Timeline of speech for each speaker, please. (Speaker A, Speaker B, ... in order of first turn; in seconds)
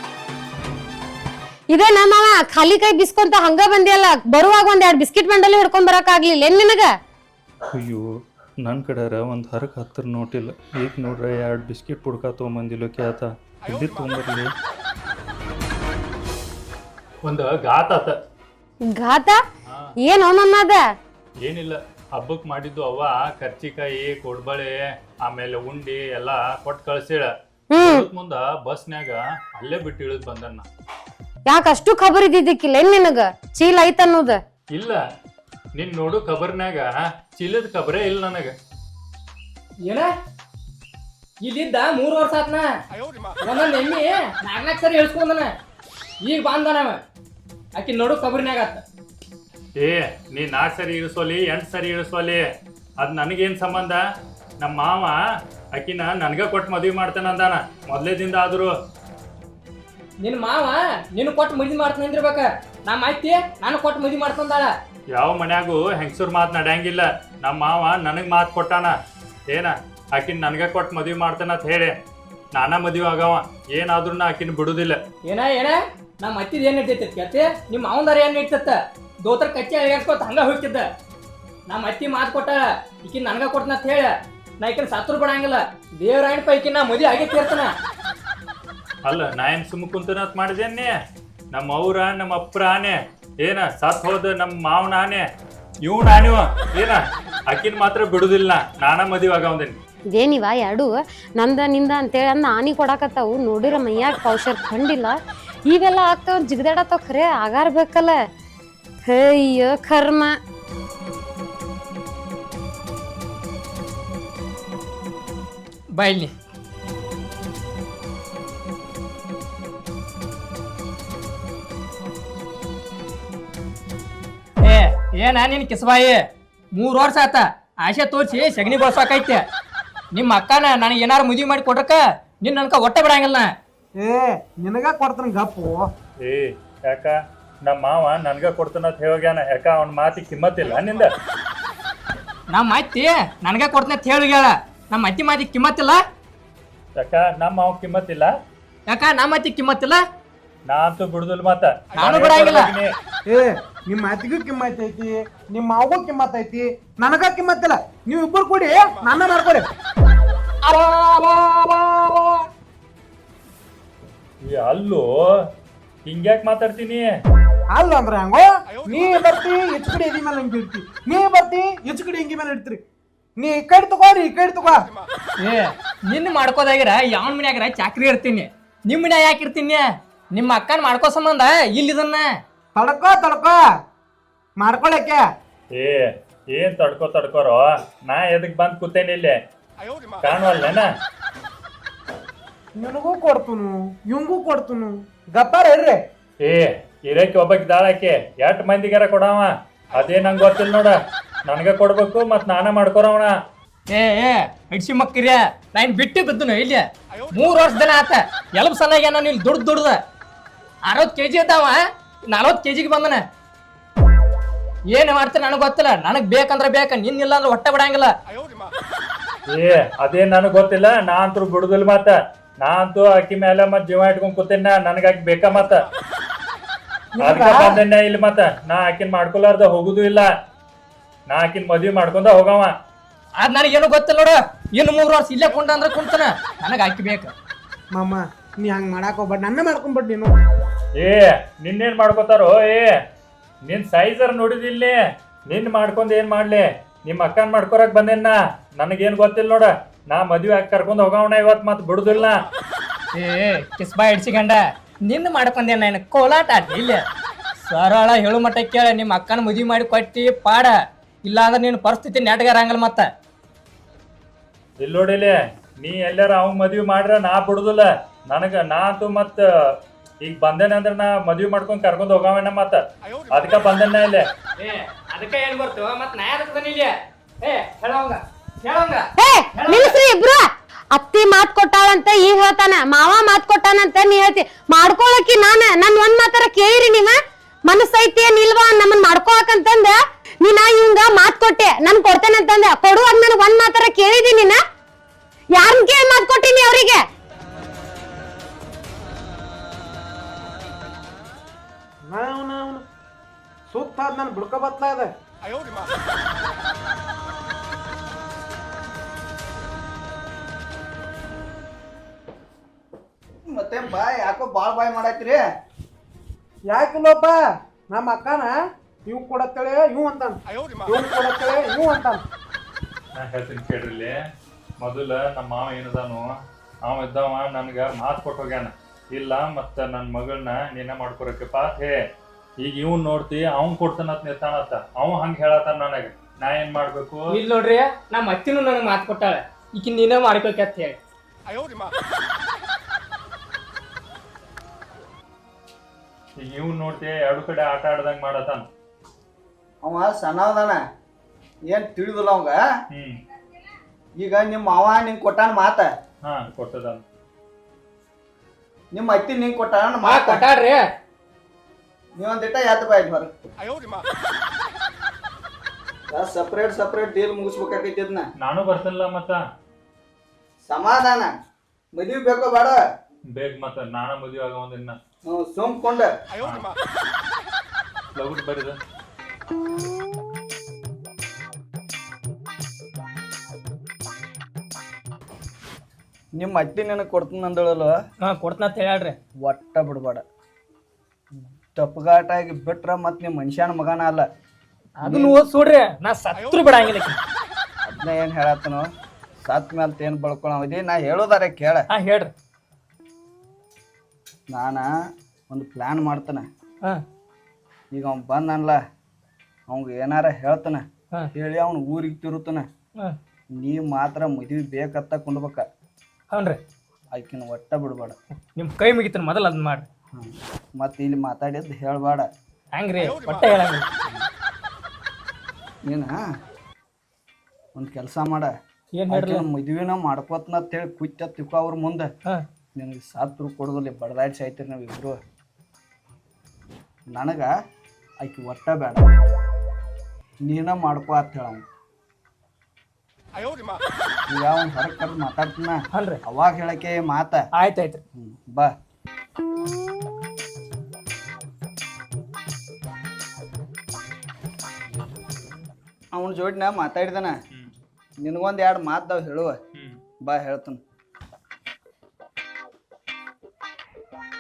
Speaker A: 1.7-6.9, 19.0-19.4, 20.0-20.8, 27.7-28.1, 31.5-34.4, 100.2-105.2, 105.7-108.2, 109.1-110.3, 279.2-294.6, 295.6-297.0
Speaker B: 7.7-8.0, 8.6-14.5, 17.2-18.1, 19.7-19.9, 21.4-30.7, 34.7-35.0, 35.8-38.5, 49.8-52.4, 53.0-54.0, 54.6-55.2, 55.8-58.7, 65.2-68.9, 69.5-71.9, 72.5-75.0, 89.0-90.9, 91.5-95.2, 95.8-99.8, 136.2-141.1, 147.0-148.3, 150.7-152.9, 164.4-165.0, 166.1-167.1, 185.8-189.3, 190.2-190.9, 196.4-200.9, 201.5-203.3, 219.5-225.9, 227.2-230.3, 231.3-232.7, 241.0-242.9, 243.7-244.9, 245.5-252.4, 264.8-269.4, 270.2-274.2, 323.1-324.1, 324.8-326.3, 326.9-331.9, 332.6-337.3, 346.4-348.7, 356.2-357.0, 368.4-369.4, 373.3-375.0, 376.4-376.7, 378.2-378.8, 459.8-460.0
Speaker C: 39.9-40.1, 41.4-42.7, 43.4-45.5, 46.2-47.0, 47.8-48.8, 60.2-64.7, 75.2-80.9, 81.7-87.7, 116.0-116.3, 124.6-126.2, 126.7-129.4, 130.1-133.5, 142.5-146.0, 148.9-150.0, 151.9-152.7, 175.4-182.3, 203.9-210.0, 210.9-211.8, 212.3-213.2, 214.9-218.1, 233.4-237.3, 253.1-257.0, 257.6-263.1, 274.6-280.0, 337.3-341.0, 360.0-360.8, 388.2-389.2, 395.0-397.2, 401.9-402.3, 416.3-416.6, 418.6-419.9, 422.7-423.9, 428.9-429.5, 445.9-446.2, 447.6-448.0
Speaker D: 134.0-135.9, 153.3-159.7, 160.6-162.4, 167.7-172.8, 173.4-174.9, 182.8-183.6, 184.6-185.3, 192.8-196.0, 227.2-227.8, 237.9-240.3, 302.1-302.8, 303.7-305.1, 316.7-317.4, 317.9-318.5, 319.1-322.2
Speaker E: 313.5-315.4, 349.8-350.8, 351.7-352.6, 354.2-355.9, 358.9-360.4, 362.2-363.3, 366.1-368.3, 370.7-371.3, 371.9-372.8, 375.3-376.1, 386.4-388.0, 389.4-390.2, 391.8-394.2, 395.0-395.4, 397.9-398.9, 399.4-401.9, 404.5-404.9, 405.5-406.5, 407.9-408.8, 409.7-412.6, 413.6-415.6, 417.1-418.2, 420.1-422.3, 425.9-426.2, 427.8-428.5, 429.1-432.1, 432.8-435.2, 437.1-437.5, 438.2-439.1, 440.4-441.6, 444.3-447.4, 448.2-448.7, 456.1-457.3, 458.2-459.6, 460.2-460.8